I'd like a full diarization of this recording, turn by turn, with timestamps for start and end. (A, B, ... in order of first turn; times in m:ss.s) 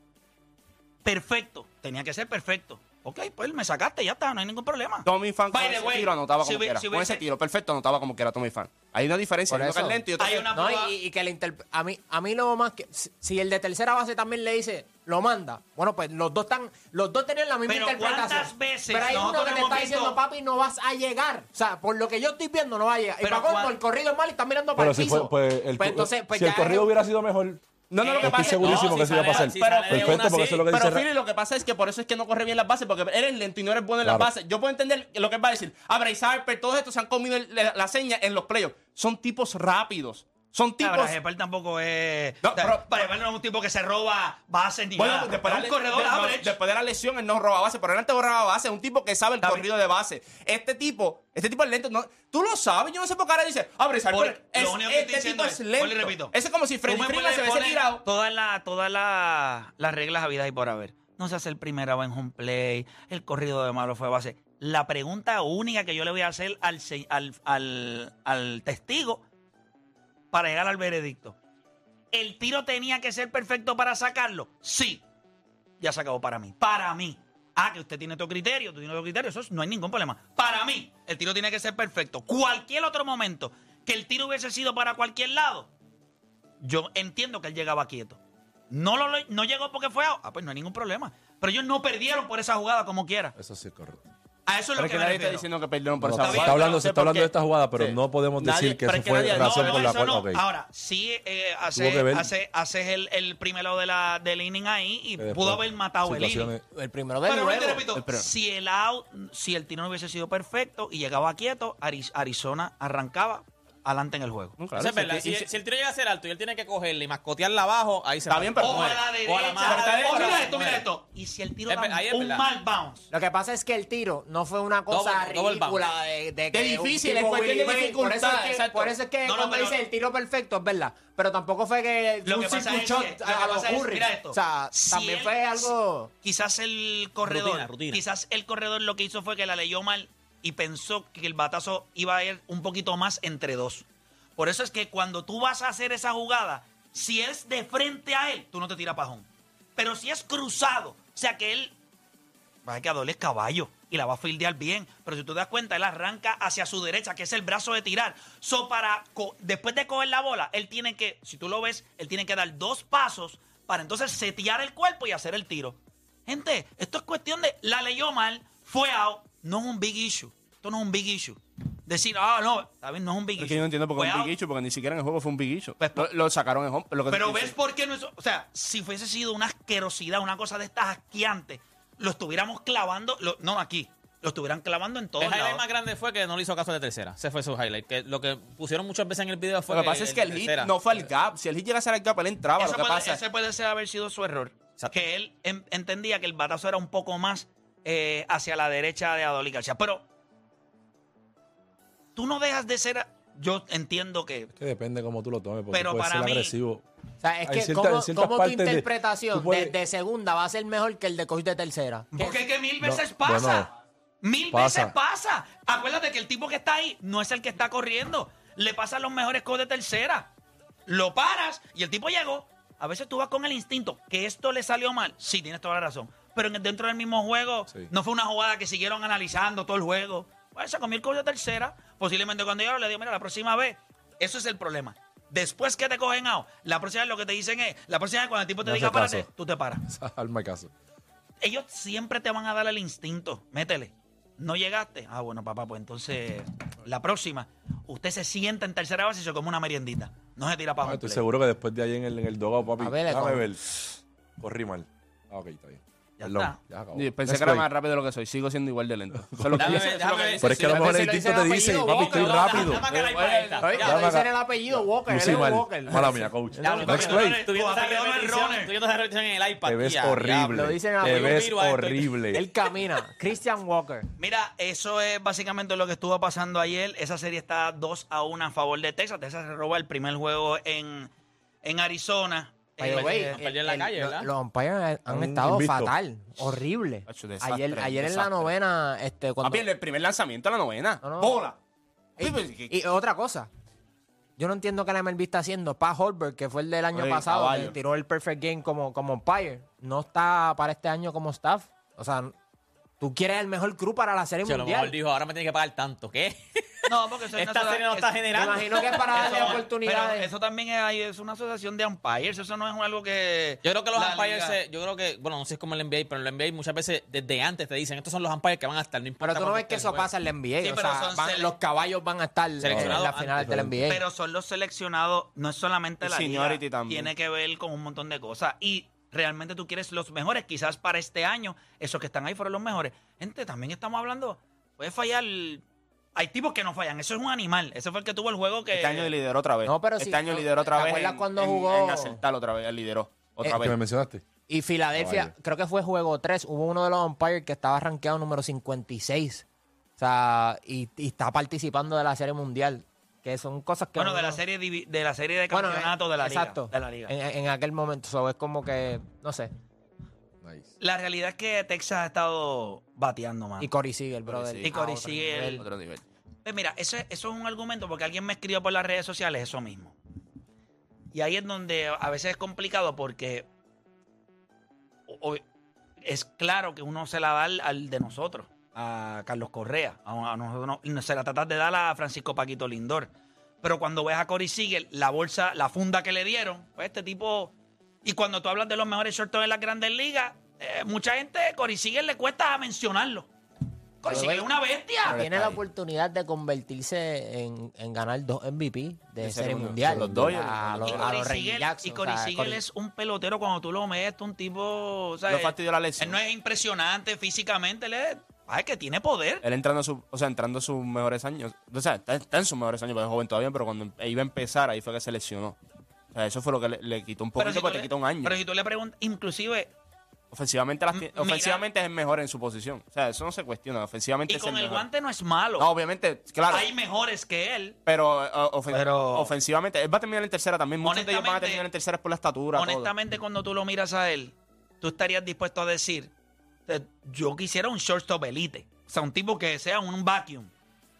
0:01.0-0:07.2 A
0:05.0-0:10.5 B
0:09.5-0:26.9 C
0:10.2-0:10.9 A
0:17.7-0:20.2 A
0:23.2-0:23.8 A
0:24.8-0:27.6 D
0:27.9-0:41.2 B
0:28.0-0:29.3 A
0:28.2-0:31.0 D
0:28.4-0:30.6 E
0:34.0-0:34.3 D
0:40.8-0:46.6 A
0:42.4-0:43.1 B
0:45.0-0:58.0 B
0:54.1-0:56.3 A
0:56.8-1:09.2 A
1:10.3-1:11.4 A
1:12.1-1:15.0 A
1:15.8-1:25.7 A
1:26.6-1:33.3 A
1:33.4-1:34.1 D
1:34.4-1:35.5 A
1:34.8-1:40.0 B
1:36.0-1:40.4 D
1:36.2-1:36.9 A
1:39.2-1:46.5 A
1:41.7-1:42.3 D
1:45.2-1:46.6 D
1:46.7-1:47.8 C
1:47.2-1:54.6 A
1:47.9-1:48.3 B
1:54.6-1:55.5 B
1:54.8-2:00.8 E
1:58.3-1:59.1 B
1:58.6-2:03.1 A
1:59.6-2:00.8 B
2:01.7-2:02.4 E
2:03.1-2:16.1 C
2:04.9-2:05.8 E
2:06.5-2:08.9 B
2:09.2-2:09.8 A
2:12.2-2:15.7 A
2:16.2-2:23.8 A
2:17.2-2:18.0 E
2:24.4-2:31.8 A
2:32.6-2:54.3 A
2:53.4-2:57.5 B
2:55.8-2:56.1 A
2:57.1-3:05.6 A
3:05.2-3:10.8 E
3:09.7-3:13.2 B
3:12.6-3:20.0 A
3:22.2-3:24.5 A
3:24.5-3:26.8 D
3:25.7-3:26.5 A
3:27.2-3:32.4 C
3:27.4-3:29.8 D
3:32.1-3:40.3 A
3:32.8-3:33.7 D
3:34.5-3:34.9 D
3:40.8-3:59.8 A
3:58.6-3:59.3 D
3:59.8-4:00.7 D
4:01.4-4:11.2 A
4:10.8-4:17.7 D
4:12.8-4:13.5 C
4:16.2-4:16.6 A
4:16.9-4:21.1 B
4:19.2-4:19.8 D
4:19.6-4:20.4 E
4:20.4-4:22.9 D
4:20.5-4:22.8 C
4:21.8-4:24.1 E
4:22.7-4:23.7 B
4:23.6-4:27.1 C
4:23.8-4:27.4 D
4:26.6-4:28.7 A
4:26.6-4:32.3 E
4:29.6-4:32.4 D
4:30.5-4:31.6 C
4:32.3-4:34.1 C
4:34.2-4:41.1 A
4:41.6-4:43.4 A
4:42.8-4:49.6 C
4:42.8-4:44.3 E
4:45.1-4:45.9 D
4:47.1-4:48.5 B
4:49.4-4:51.6 B
4:51.0-4:51.4 C
4:52.2-4:52.7 B
4:52.7-4:53.5 C
4:54.4-5:02.3 C
4:56.9-4:57.7 B
5:03.0-5:04.9 C
5:04.4-5:09.6 E
5:06.9-5:08.1 A
5:08.3-5:10.3 C
5:09.1-5:14.6 A
5:13.6-5:20.1 E
5:19.2-5:24.0 C
5:20.6-5:21.5 A
5:22.6-5:23.4 E
5:22.6-5:23.9 D
5:23.9-5:35.6 A
5:26.0-5:27.1 B
5:36.1-5:39.1 A
5:38.7-5:43.8 B
5:39.6-5:42.2 C
5:43.5-5:44.2 D
5:44.5-5:49.4 C
5:45.0-5:45.3 D
5:50.0-5:54.4 C
5:54.0-5:57.1 A
5:55.5-5:59.5 C
6:00.4-6:00.7 D
6:00.8-6:03.7 A
6:03.6-6:05.6 C
6:04.3-6:04.8 B
6:04.6-6:05.6 A
6:05.6-6:06.0 B
6:06.4-6:10.0 A
6:11.1-6:13.4 A
6:15.1-6:15.4 A
6:16.0-6:23.1 A
6:23.6-6:27.5 A
6:28.0-6:33.3 A
6:34.0-6:35.2 A
6:34.0-6:34.5 C
6:35.0-6:42.6 C
6:35.0-6:35.6 B
6:39.2-6:41.2 B
6:39.9-6:40.4 D
6:40.8-6:49.4 A
6:45.2-6:46.2 B
6:49.4-6:55.6 B
6:56.1-6:58.4 B
6:57.4-6:59.7 A
7:00.3-7:04.8 B
7:00.9-7:01.6 A
7:04.3-7:05.7 A
7:05.6-7:06.7 B
7:06.5-7:07.8 A
7:07.8-7:12.9 B
7:08.7-7:09.3 A
7:10.8-7:11.6 A
7:12.5-7:16.1 A
7:16.7-7:20.5 A